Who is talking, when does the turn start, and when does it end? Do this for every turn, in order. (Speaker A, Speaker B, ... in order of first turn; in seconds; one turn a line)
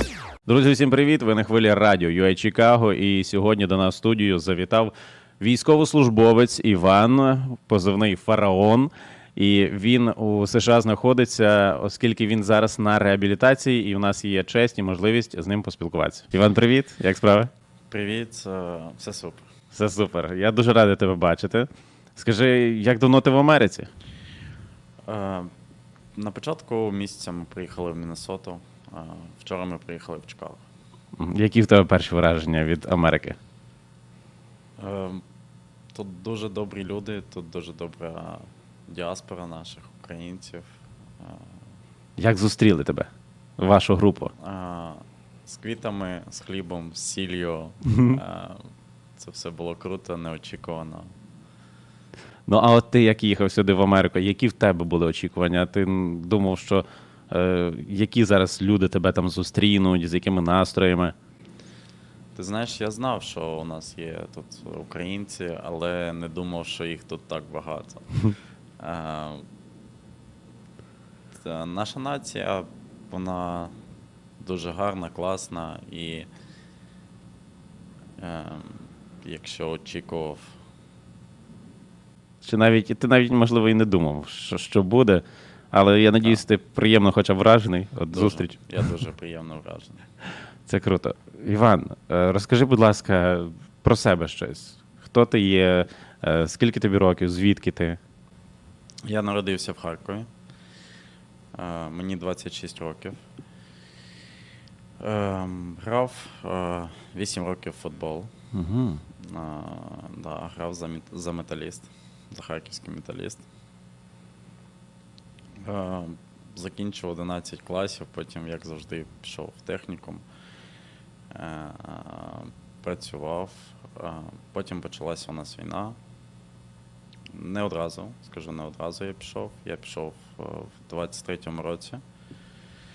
Speaker A: 0.5-17.5
Speaker B: 17.9-19.5
Speaker A: 19.7-23.9
Speaker B: 25.1-25.5
Speaker B: 26.2-30.7
Speaker A: 31.2-33.4
Speaker B: 34.8-35.2
Speaker B: 35.9-41.6
Speaker A: 42.2-44.3
Speaker B: 44.4-48.6
Speaker A: 48.0-48.2
Speaker B: 49.2-51.1
Speaker A: 52.5-61.1
Speaker B: 62.4-68.1
Speaker B: 68.8-69.4
Speaker B: 71.3-73.7
Speaker B: 74.4-76.3
Speaker B: 78.2-80.5
Speaker A: 82.4-88.7
Speaker B: 88.1-90.0
Speaker A: 90.7-98.0
Speaker B: 99.0-100.3
Speaker B: 101.5-103.2
Speaker B: 105.0-108.3
Speaker A: 108.5-109.0
Speaker B: 109.2-113.5
Speaker B: 115.6-120.2
Speaker B: 121.3-126.0
Speaker B: 127.3-132.0